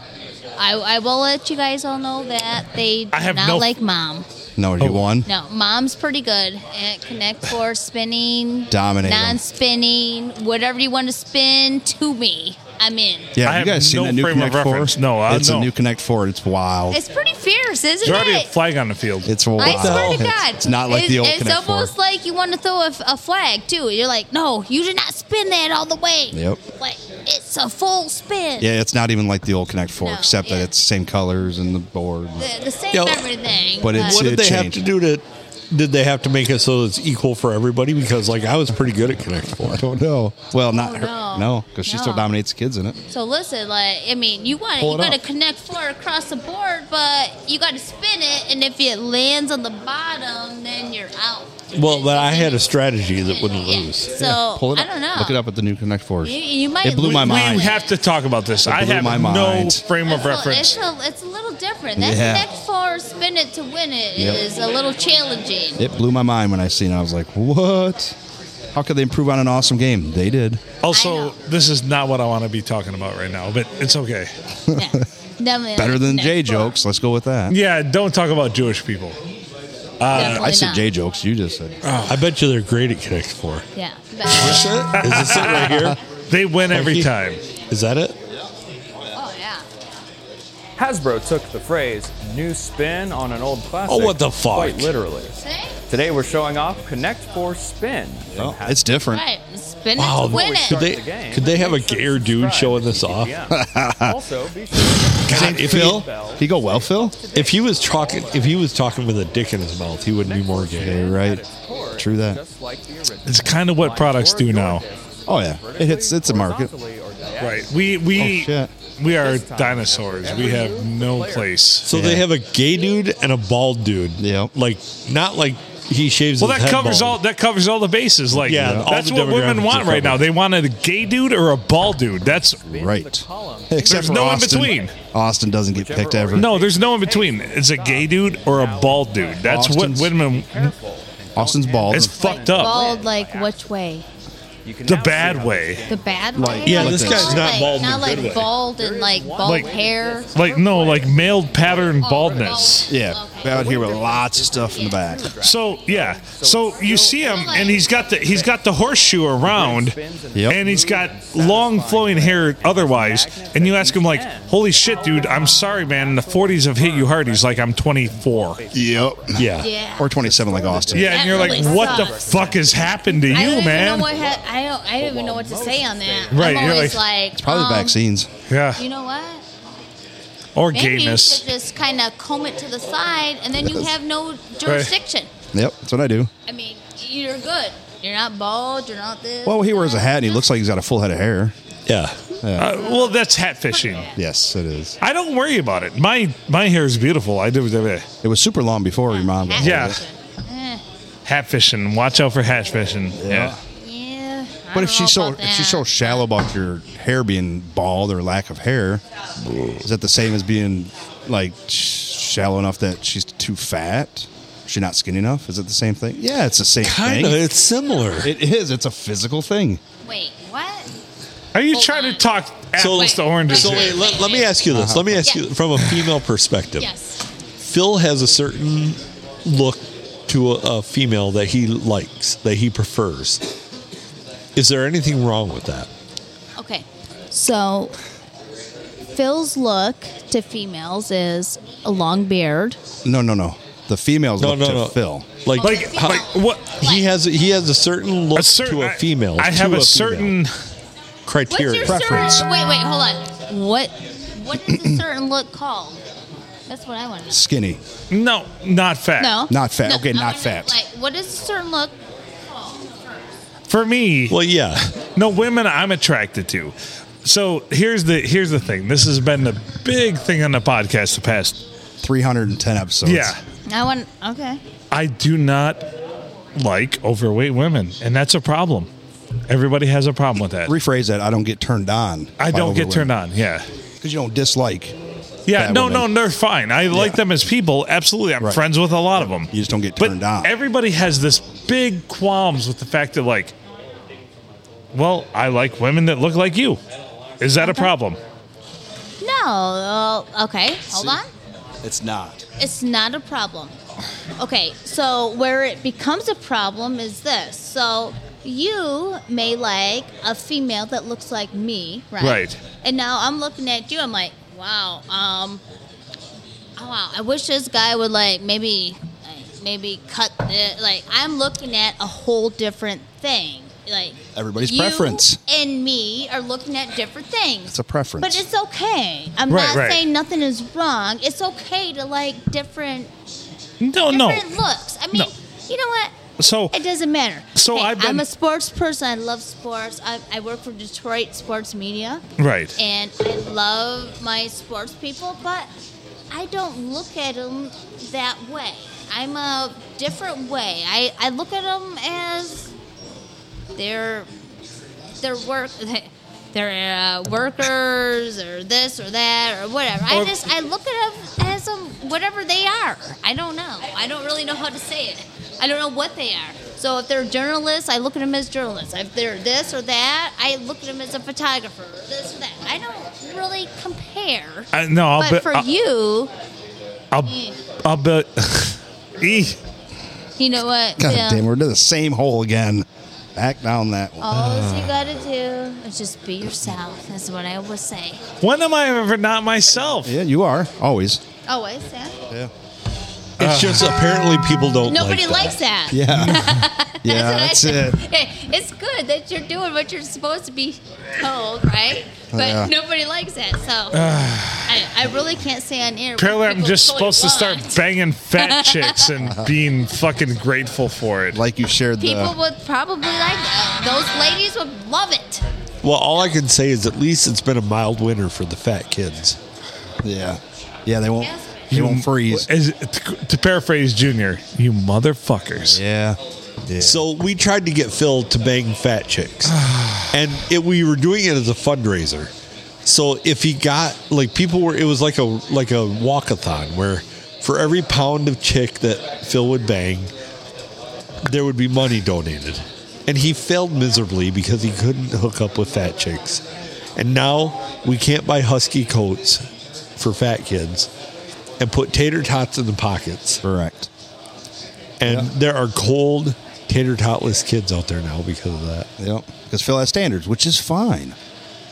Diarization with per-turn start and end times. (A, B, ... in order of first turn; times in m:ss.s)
0:00.6-0:04.3 A
0:03.1-0:03.7 B
0:04.6-0:05.3 C
0:05.2-0:13.3 A
0:08.7-0:09.4 C
0:13.3-0:17.0 C
0:13.4-0:15.7 B
0:16.9-0:18.5 A
0:18.0-0:19.3 B
0:19.2-0:21.9 C
0:19.6-0:28.7 A
0:19.6-0:20.2 D
0:26.3-0:26.6 C
0:28.6-0:32.5 C
0:30.0-0:30.7 A
0:32.4-0:34.2 A
0:32.9-0:33.3 D
0:33.8-0:34.8 C
0:33.9-0:39.8 D
0:39.6-0:43.0 C
0:40.7-0:42.3 A
0:43.1-0:52.6 A
0:44.8-0:45.2 C
0:51.7-0:54.1 D
0:53.2-0:55.4 A
0:54.2-0:57.7 C
0:56.2-0:57.8 A
0:57.1-1:00.8 B
0:58.6-0:59.8 C
1:00.0-1:05.8 A
1:02.0-1:02.4 C
1:04.2-1:04.4 C
1:05.8-1:08.1 C
1:08.7-1:10.6 C
1:10.8-1:14.3 B
1:10.9-1:11.3 A
1:14.7-1:15.0 C
1:14.7-1:16.7 A
1:15.8-1:17.6 C
1:17.5-1:19.2 B
1:20.0-1:20.5 B
1:20.1-1:20.9 A
1:20.1-1:21.8 C
1:21.8-1:22.2 B
1:22.0-1:23.6 D
1:23.8-1:24.7 A
1:24.3-1:26.0 D
1:24.4-1:27.4 B
1:26.7-1:27.1 D
1:27.7-1:28.2 D
1:29.1-1:29.6 A
1:30.8-1:35.3 E
1:33.9-1:34.9 D
1:35.4-1:35.8 A
1:35.9-1:39.1 E
1:38.3-1:39.2 C
1:39.1-1:40.9 A
1:40.0-1:43.3 D
1:40.2-1:58.3 E
1:43.5-1:44.2 C
1:45.2-1:46.1 D
1:45.3-1:47.2 C
1:47.3-1:51.0 D
1:50.7-1:51.4 C
1:52.0-1:52.4 C
1:53.2-1:54.8 B
1:55.3-1:56.7 C
1:57.4-2:01.9 B
1:58.2-1:58.7 C
1:59.1-2:01.6 E
2:01.8-2:07.2 D
2:01.9-2:02.3 C
2:04.2-2:04.5 C
2:06.4-2:12.6 B
2:08.4-2:10.2 D
2:08.4-2:08.9 C
2:12.2-2:14.9 E
2:12.7-2:16.5 C
2:13.8-2:14.9 B
2:15.7-2:23.7 E
2:16.3-2:20.7 B
2:19.4-2:20.1 C
2:21.3-2:22.1 C
2:21.9-2:22.8 B
2:22.2-2:24.0 A
2:24.6-2:56.9 E
2:24.8-2:25.8 B
2:25.9-2:30.3 A
2:26.3-2:27.5 C
2:26.6-2:28.5 D
2:29.4-2:29.7 B
2:30.3-2:32.9 B
2:32.0-2:33.8 A
2:32.9-2:35.3 C
2:34.7-2:35.0 A
2:35.4-2:40.0 B
2:37.2-2:37.8 A
2:40.5-2:48.6 B
2:48.7-2:51.3 C
2:49.4-2:49.7 D
2:49.6-2:50.1 A
2:50.9-2:54.1 B
2:51.0-2:52.2 A
2:53.1-2:58.0 A
2:56.3-2:57.0 B
2:57.3-2:58.3 C
2:58.5-2:58.8 B
2:58.8-2:59.4 A
3:00.6-3:01.4 B
3:00.7-3:05.3 A
3:03.6-3:03.9 C
3:04.6-3:04.9 B
3:05.5-3:06.3 C
3:06.5-3:10.5 A
3:09.4-3:11.5 C
3:11.9-3:12.2 D
3:12.4-3:12.7 C
3:12.6-3:14.2 A
3:12.6-3:14.0 B
3:14.2-3:15.0 C
3:15.0-3:18.0 B
3:18.2-3:20.0 C
3:19.1-3:20.8 A
3:19.6-3:20.0 B
3:21.2-3:23.5 B
3:23.2-3:23.6 C
3:23.8-3:26.2 A
3:24.7-3:29.0 C
3:29.8-3:37.4 C
3:36.8-3:38.3 D
3:38.2-3:39.8 C
3:40.0-3:40.9 A
3:41.5-3:44.1 B
3:41.7-3:42.3 A
3:42.8-3:46.9 D
3:42.9-3:44.6 A
3:44.7-3:45.3 C
3:46.8-3:47.2 A
3:47.6-3:53.4 D
3:54.6-3:55.9 D
3:56.6-3:57.9 A
3:59.1-4:02.8 A
4:03.0-4:05.4 C
4:04.4-4:10.4 D
4:05.6-4:07.1 A
4:05.6-4:06.7 B
4:08.3-4:10.5 B
4:11.2-4:12.4 D
4:11.5-4:16.0 A
4:11.8-4:12.4 C
4:14.7-4:15.0 C
4:16.7-4:17.4 A
4:17.3-4:17.8 C
4:18.1-4:19.4 B
4:19.2-4:21.9 A
4:19.5-4:20.8 C
4:22.5-4:23.2 A
4:23.7-4:24.4 B
4:24.3-4:24.9 D
4:25.0-4:31.6 B
4:32.0-4:33.3 C
4:33.0-4:33.4 B
4:33.7-4:34.6 A
4:34.9-4:35.9 B
4:36.6-4:38.9 B
4:39.5-4:40.7 B
4:40.6-4:43.1 C
4:42.4-4:43.6 B
4:44.0-4:45.0 C
4:45.5-4:53.5 B
4:45.5-4:46.1 C
4:46.9-4:47.2 C
4:49.2-4:50.5 C
4:54.9-4:56.8 B
4:57.4-4:58.2 B
4:57.6-4:57.9 A
4:59.2-5:01.3 A
5:00.9-5:01.2 C
5:01.8-5:02.4 C
5:02.6-5:03.7 A
5:04.4-5:15.6 A
5:12.2-5:12.6 B
5:16.8-5:33.1 A
5:24.3-5:25.4 C
5:27.7-5:28.4 C
5:29.5-5:30.0 B
5:33.8-5:34.5 B
5:34.1-5:36.2 A
5:36.4-5:36.7 B
5:36.7-5:42.2 A
5:37.5-5:38.2 B
5:42.4-5:42.7 B
5:42.8-5:45.7 A
5:46.3-5:52.7 A
5:53.8-5:54.3 A
5:55.2-6:16.3 A
6:00.1-6:00.4 B
6:14.7-6:15.7 B
6:17.1-6:19.6 B
6:17.2-6:17.6 A
6:20.4-6:21.4 A
6:21.0-6:24.4 C
6:24.2-6:28.2 A
6:28.4-6:30.1 B
6:30.0-6:31.2 C
6:31.5-6:32.2 A
6:33.4-6:35.6 D
6:33.4-6:34.0 B
6:34.8-6:44.1 A
6:35.9-6:38.0 C
6:42.3-6:42.7 C
6:43.9-6:44.8 B
6:44.6-6:47.8 A
6:46.2-6:51.4 B
6:48.4-6:49.1 A
6:49.2-6:49.5 C
6:51.3-6:52.4 C
6:52.0-6:55.4 A
6:55.8-6:59.4 D
7:00.0-7:02.5 C
7:01.2-7:01.5 A
7:01.7-7:05.8 B
7:05.6-7:07.0 C
7:06.8-7:09.6 D
7:09.5-7:10.1 B
7:10.1-7:12.3 D
7:12.8-7:20.1 D
7:21.2-7:26.4 D
7:27.0-7:29.4 D
7:30.0-7:30.9 D
7:31.6-7:33.4 D
7:33.4-7:33.9 C
7:35.0-7:38.9 D
7:39.0-7:41.2 C